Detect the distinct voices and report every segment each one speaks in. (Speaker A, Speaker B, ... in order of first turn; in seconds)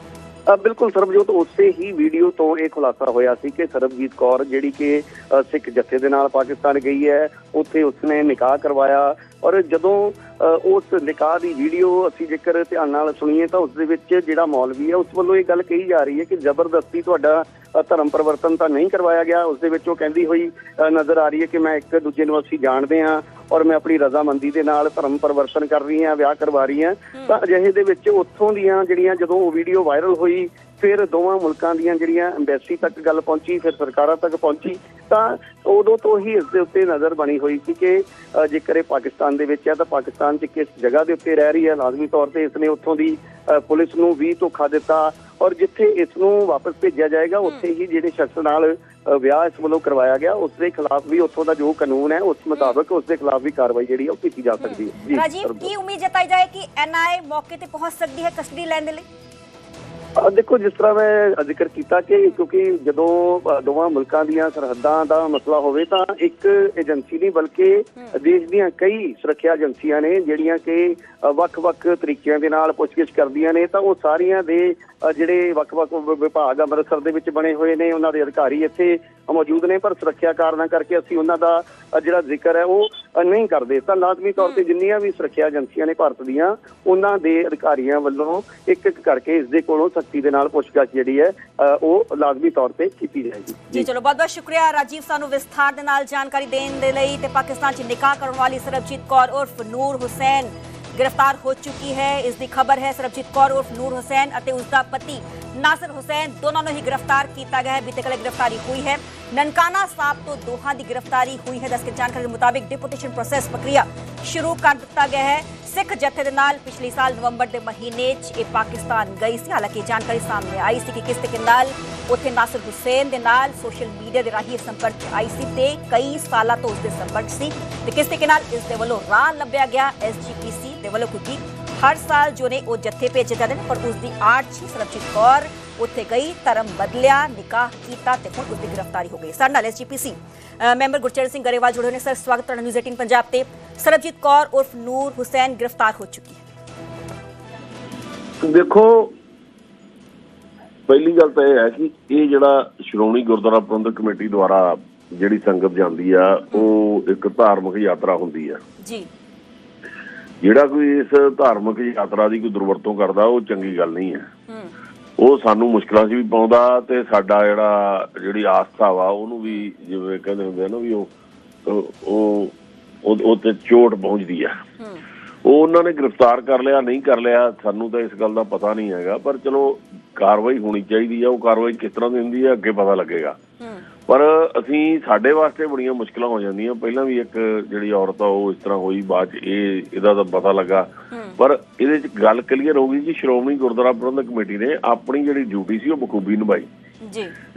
Speaker A: 0.5-55.7, 60.2-93.9
Speaker B: 54.6-59.0, 93.7-146.4, 158.8-159.1, 164.5-164.7, 174.8-175.1, 183.6-183.9, 191.1-191.4, 197.0-197.3
Speaker C: 148.4-149.1, 150.9-158.6, 160.4-164.3, 165.2-171.1, 171.7-174.6, 175.4-183.4, 184.1-196.7